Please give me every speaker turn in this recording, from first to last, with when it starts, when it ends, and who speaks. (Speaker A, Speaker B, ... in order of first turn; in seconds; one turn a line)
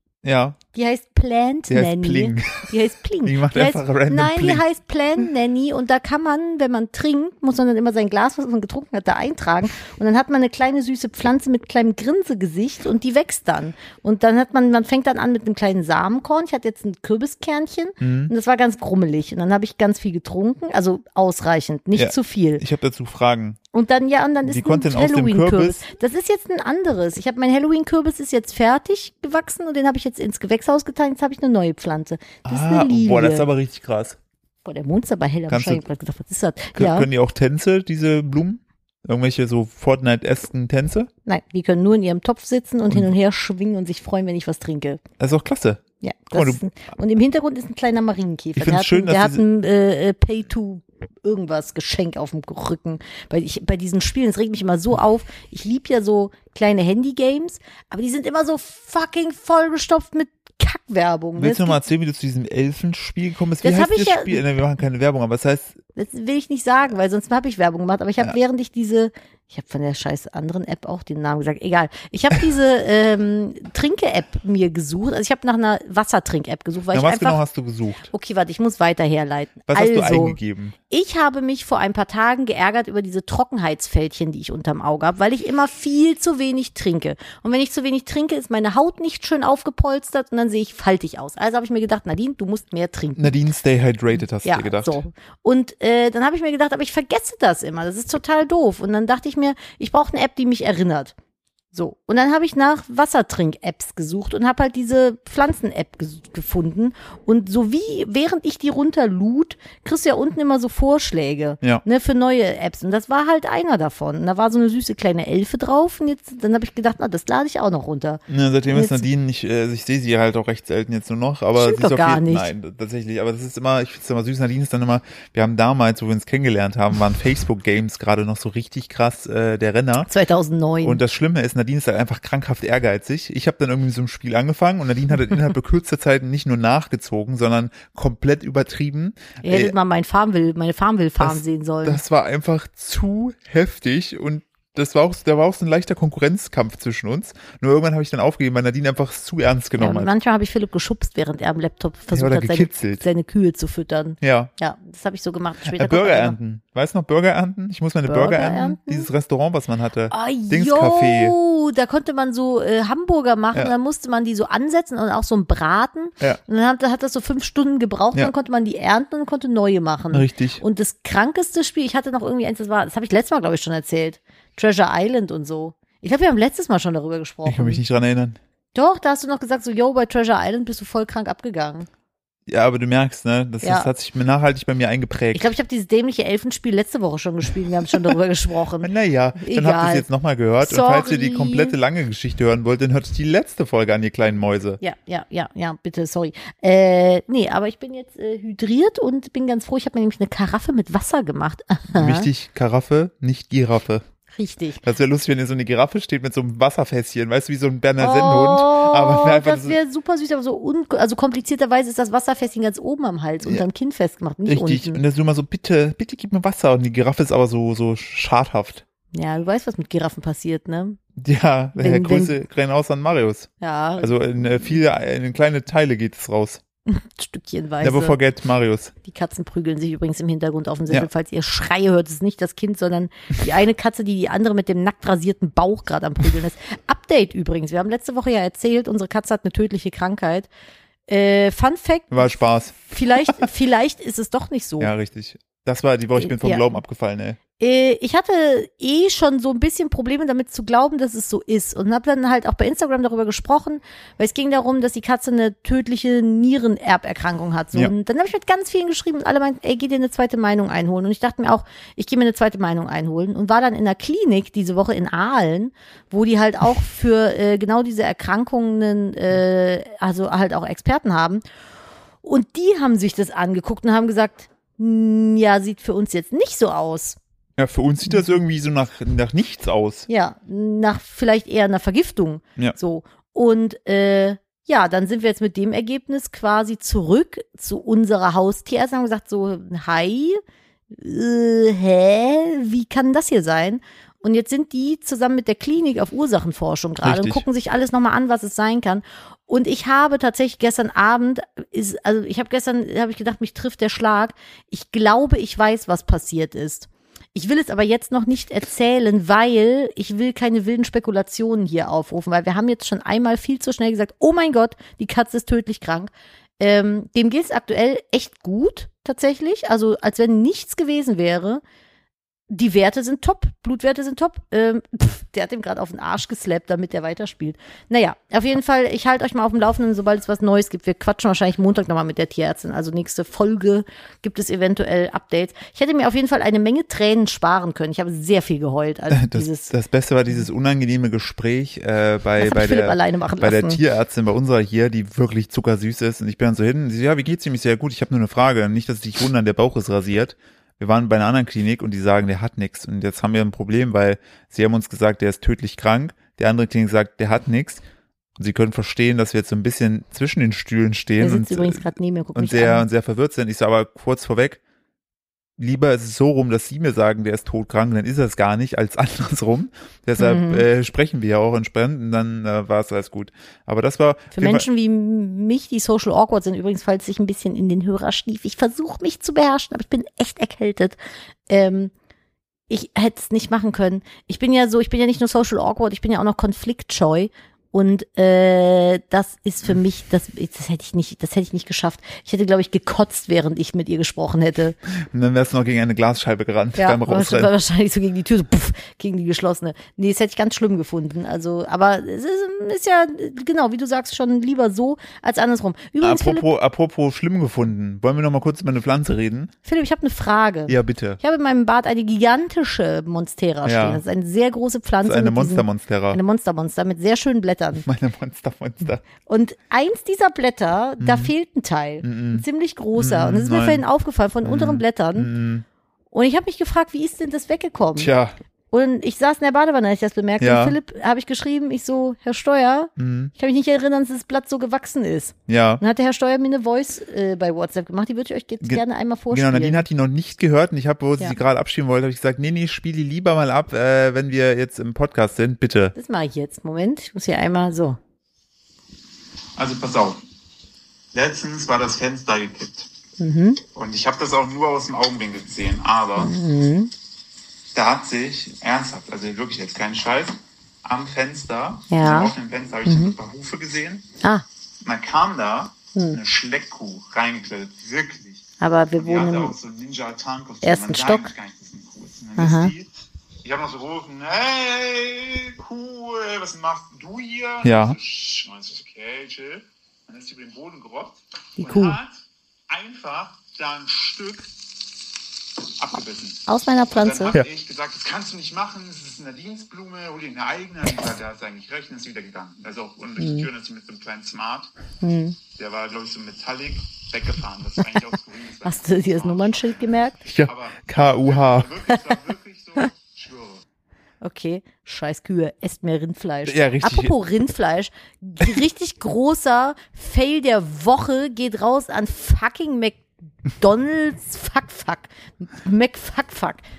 Speaker A: 0.2-0.6
Speaker B: 0.7-22.6
Speaker A: 1.7-2.7
Speaker A: 3.2-4.6
Speaker A: 18.0-18.3
Speaker A: 21.9-23.6
Speaker B: 23.7-33.5
Speaker A: 24.5-25.8
Speaker A: 32.5-34.2
Speaker B: 34.6-37.1
Speaker A: 35.5-35.8
Speaker A: 36.8-41.1
Speaker B: 41.3-45.0
Speaker A: 45.2-46.6
Speaker B: 46.0-61.8
Speaker A: 48.6-49.4
Speaker A: 61.4-65.8
Speaker B: 63.6-64.4
Speaker B: 66.0-77.4
Speaker A: 76.9-78.1
Speaker B: 78.1-80.4
Speaker A: 79.7-80.8
Speaker B: 80.9-93.4
Speaker A: 93.2-95.0
Speaker B: 94.4-101.1
Speaker B: 101.7-119.1
Speaker A: 118.3-130.1
Speaker B: 121.6-122.5
Speaker B: 130.1-131.0
Speaker A: 130.8-139.7
Speaker B: 139.4-142.0
Speaker A: 141.2-150.1
Speaker B: 149.8-156.4
Speaker A: 152.1-153.0
Speaker A: 154.2-154.5
Speaker A: 155.7-161.3
Speaker B: 158.1-159.1
Speaker B: 160.1-177.8
Speaker A: 170.1-170.6
Speaker A: 177.4-178.4
Speaker B: 178.7-181.9
Speaker A: 182.5-185.5
Speaker B: 183.6-183.9
Speaker B: 185.3-190.1
Speaker A: 188.8-194.8
Speaker B: 190.6-191.8
Speaker B: 194.8-202.3
Speaker A: 201.9-204.0
Speaker B: 204.3-204.8
Speaker A: 204.8-209.8
Speaker B: 208.0-215.0
Speaker A: 214.5-218.8
Speaker B: 219.1-221.0
Speaker A: 221.2-226.6
Speaker B: 221.8-222.4
Speaker B: 223.6-224.8
Speaker B: 226.9-228.2
Speaker A: 227.8-228.9
Speaker B: 229.0-240.5
Speaker B: 241.1-244.9
Speaker A: 242.1-243.5
Speaker A: 244.8-247.4
Speaker B: 246.2-246.8
Speaker B: 247.6-271.4
Speaker B: 272.2-277.2
Speaker A: 277.6-280.1
Speaker B: 280.1-321.6
Speaker A: 297.0-297.4
Speaker B: 322.5-339.7
Speaker A: 339.1-357.8
Speaker B: 342.4-343.8
Speaker A: 358.4-364.6
Speaker B: 361.2-362.9
Speaker A: 365.6-374.7
Speaker B: 370.2-370.7
Speaker B: 374.4-381.0
Speaker B: 381.5-381.9
Speaker B: 382.7-394.8
Speaker A: 395.1-397.5
Speaker B: 396.8-406.5
Speaker A: 406.0-409.5
Speaker B: 409.6-417.8
Speaker A: 410.7-411.2
Speaker A: 413.6-414.0
Speaker A: 415.0-416.2
Speaker A: 417.8-419.0
Speaker B: 419.3-425.3
Speaker A: 421.0-421.3
Speaker A: 422.0-422.4
Speaker A: 423.0-423.8
Speaker A: 424.4-425.6
Speaker B: 426.1-428.1
Speaker A: 428.0-428.4
Speaker B: 428.7-439.9
Speaker A: 430.4-430.8
Speaker A: 433.0-433.3
Speaker A: 435.5-435.8
Speaker A: 438.6-445.9
Speaker B: 445.9-448.0
Speaker C: 449.6-450.2
Speaker C: 451.1-452.9
Speaker B: 453.2-453.6
Speaker C: 453.7-456.3
Speaker B: 456.2-456.9
Speaker C: 457.7-464.1
Speaker B: 461.9-463.2
Speaker C: 464.8-468.5
Speaker B: 465.9-466.2
Speaker B: 468.6-469.6
Speaker C: 469.0-472.9
Speaker B: 470.6-471.3
Speaker B: 472.4-472.7
Speaker C: 473.4-484.5
Speaker A: 477.6-478.0
Speaker B: 481.6-482.0
Speaker C: 485.8-494.7
Speaker B: 486.5-487.4
Speaker B: 493.2-493.5
Speaker B: 495.0-495.4
Speaker C: 495.6-499.8
Speaker B: 498.6-500.2
Speaker A: 500.2-501.9
Speaker C: 500.5-503.6
Speaker B: 501.9-502.2
Speaker B: 504.2-516.6
Speaker A: 506.4-507.1